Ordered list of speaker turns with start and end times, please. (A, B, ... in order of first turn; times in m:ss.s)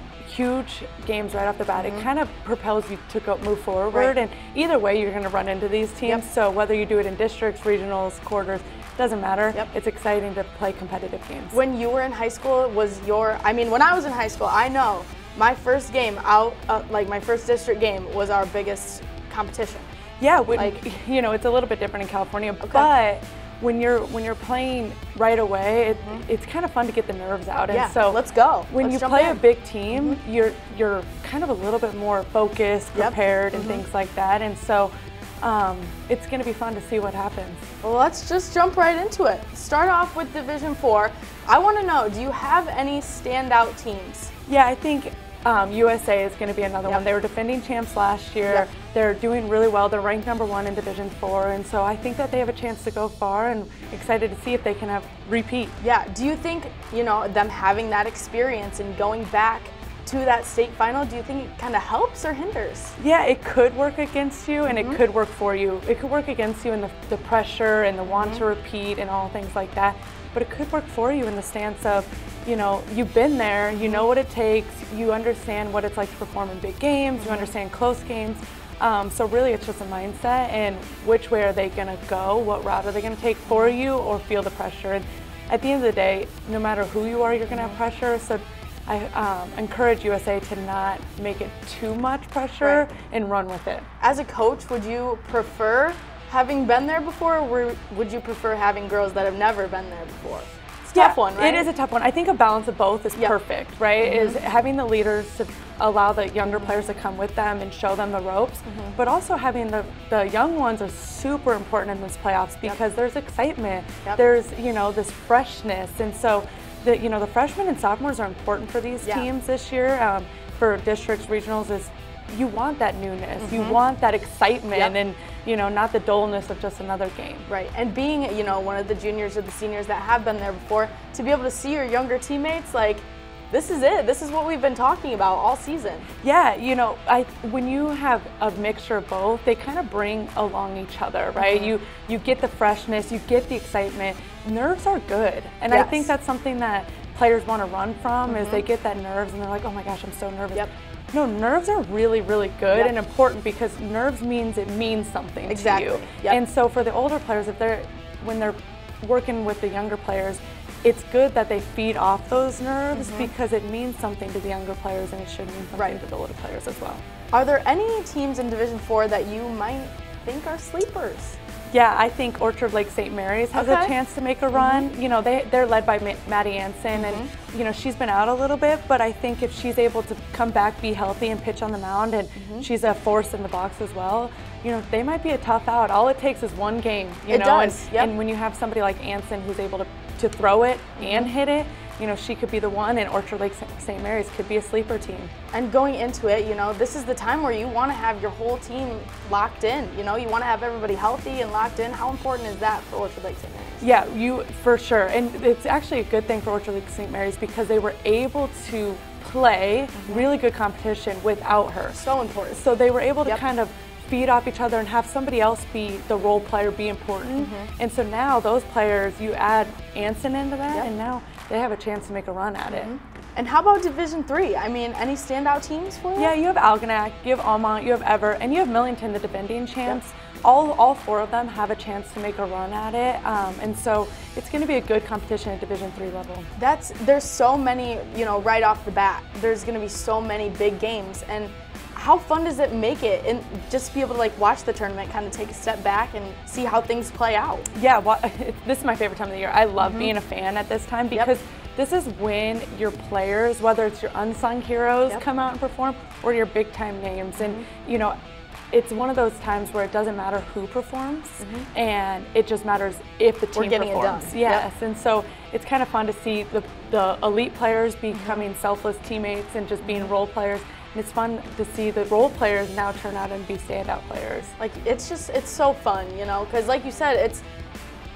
0:00.2-0:11.6 A
0:01.8-0:02.0 B
0:11.5-0:19.9 B
0:20.2-0:37.6 A
0:22.6-0:22.9 B
0:27.7-0:29.4 B
0:32.9-0:33.8 B
0:37.8-0:44.3 B
0:44.5-0:55.7 A
0:55.8-1:03.0 B
1:03.0-1:33.9 A
1:04.7-1:05.0 B
1:08.1-1:08.4 B
1:13.7-1:14.0 B
1:17.2-1:17.5 B
1:23.5-1:23.8 B
1:34.0-1:41.7 B
1:40.9-2:07.5 A
1:44.0-1:44.4 B
1:48.7-1:49.0 B
1:59.0-1:59.3 B
2:03.4-2:03.8 B
2:07.5-2:16.1 B
2:16.2-2:47.0 A
2:21.4-2:21.7 B
2:25.7-2:26.1 B
2:28.3-2:28.6 B
2:35.5-2:36.4 B
2:42.9-2:43.3 B
2:47.3-2:51.4 B
2:51.7-3:15.3 A
2:53.5-2:53.9 B
2:54.5-2:54.8 B
2:56.9-2:57.3 B
3:02.4-3:02.6 B
3:07.3-3:08.1 B
3:11.0-3:11.3 B
3:15.5-3:23.9 B
3:23.8-3:32.0 A
3:30.0-3:30.3 B
3:31.9-3:32.6 B
3:32.5-3:42.9 A
3:37.4-3:37.7 B
3:42.7-3:46.3 B
3:46.2-3:56.5 A
3:56.6-4:07.7 B
4:07.7-4:18.2 A
4:09.8-4:10.1 B
4:17.4-4:17.6 B
4:18.7-4:34.5 A
4:21.4-4:21.7 B
4:23.5-4:24.6 B
4:28.2-4:28.4 B
4:29.8-4:30.1 B
4:34.6-4:37.4 B